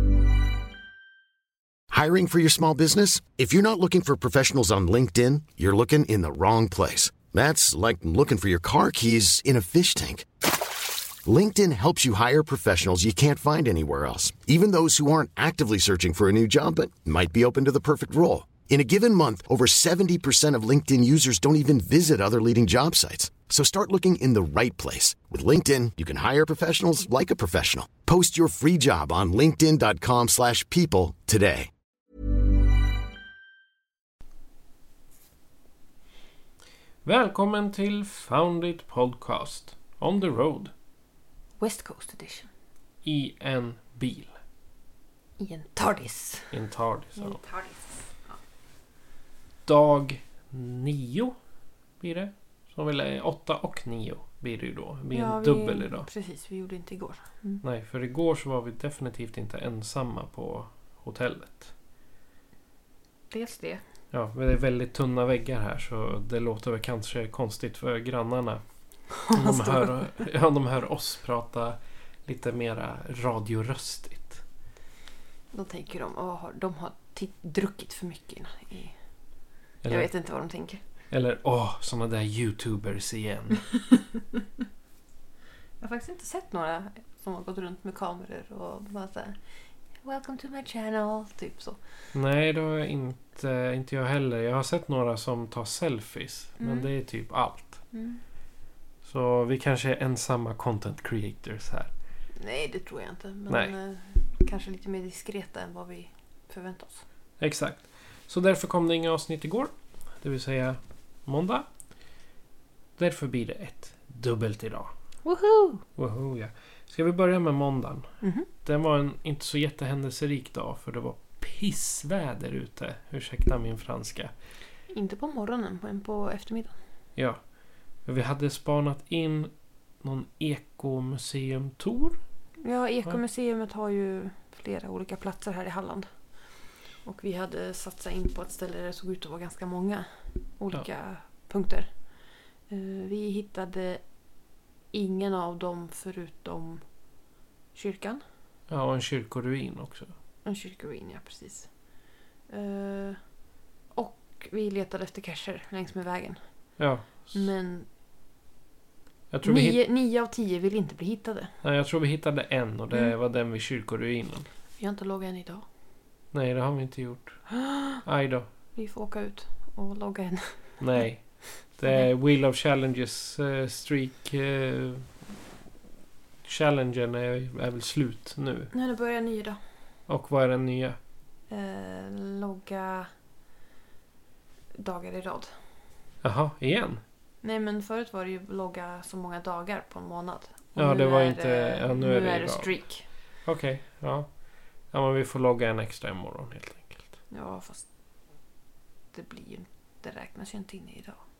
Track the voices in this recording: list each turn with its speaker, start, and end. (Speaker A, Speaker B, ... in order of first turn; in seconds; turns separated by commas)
Speaker A: 1.9-10.2, Speaker A: 11.2-31.7, Speaker B: 37.0-40.7, Speaker C: 41.6-42.5, Speaker B: 43.0-44.3, Speaker C: 45.4-46.6, Speaker B: 46.5-47.4, Speaker C: 47.1-48.4, Speaker B: 49.6-51.3, Speaker B: 52.0-56.1, Speaker C: 55.1-57.6, Speaker B: 57.6-61.7, Speaker C: 63.3-63.8, Speaker B: 64.1-68.6, Speaker C: 69.2-70.1, Speaker B: 69.3-74.4, Speaker C: 75.5-79.0, Speaker B: 79.8-80.1, Speaker C: 79.8-80.8, Speaker B: 81.1-83.7, Speaker C: 85.8-89.4, Speaker C: 90.0-91.8, Speaker B: 92.1-97.8, Speaker C: 96.6-96.9, Speaker C: 97.9-98.2, Speaker B: 99.0-101.9, Speaker C: 102.4-107.0, Speaker B: 107.4-111.7, Speaker B: 113.0-114.9, Speaker C: 115.2-115.8, Speaker B: 116.0-118.0, Speaker C: 118.2-118.5, Speaker B: 118.6-124.3, Speaker C: 124.9-126.7, Speaker B: 128.0-132.2, Speaker C: 132.6-136.1, Speaker C: 137.0-141.9, Speaker C: 142.7-144.0, Speaker C: 144.9-146.8, Speaker C: 147.7-148.2, Speaker B: 148.7-150.1, Speaker C: 150.4-151.7, Speaker C: 152.5-153.2, Speaker C: 153.9-156.4, Speaker B: 156.8-157.3, Speaker C: 157.3-157.9, Speaker B: 159.3-159.8, Speaker C: 159.4-161.6, Speaker B: 161.6-164.5, Speaker C: 164.8-165.6, Speaker B: 166.3-168.5, Speaker C: 167.6-168.0, Speaker C: 168.7-170.8, Speaker B: 170.8-175.2, Speaker B: 176.4-178.7, Speaker C: 178.7-179.6, Speaker B: 180.1-181.0, Speaker C: 181.5-183.1, Speaker C: 184.7-185.5, Speaker B: 186.2-187.0, Speaker C: 187.4-193.1, Speaker B: 190.8-192.9, Speaker B: 193.4-194.3, Speaker B: 194.9-197.1, Speaker C: 197.3-197.8, Speaker C: 199.1-201.2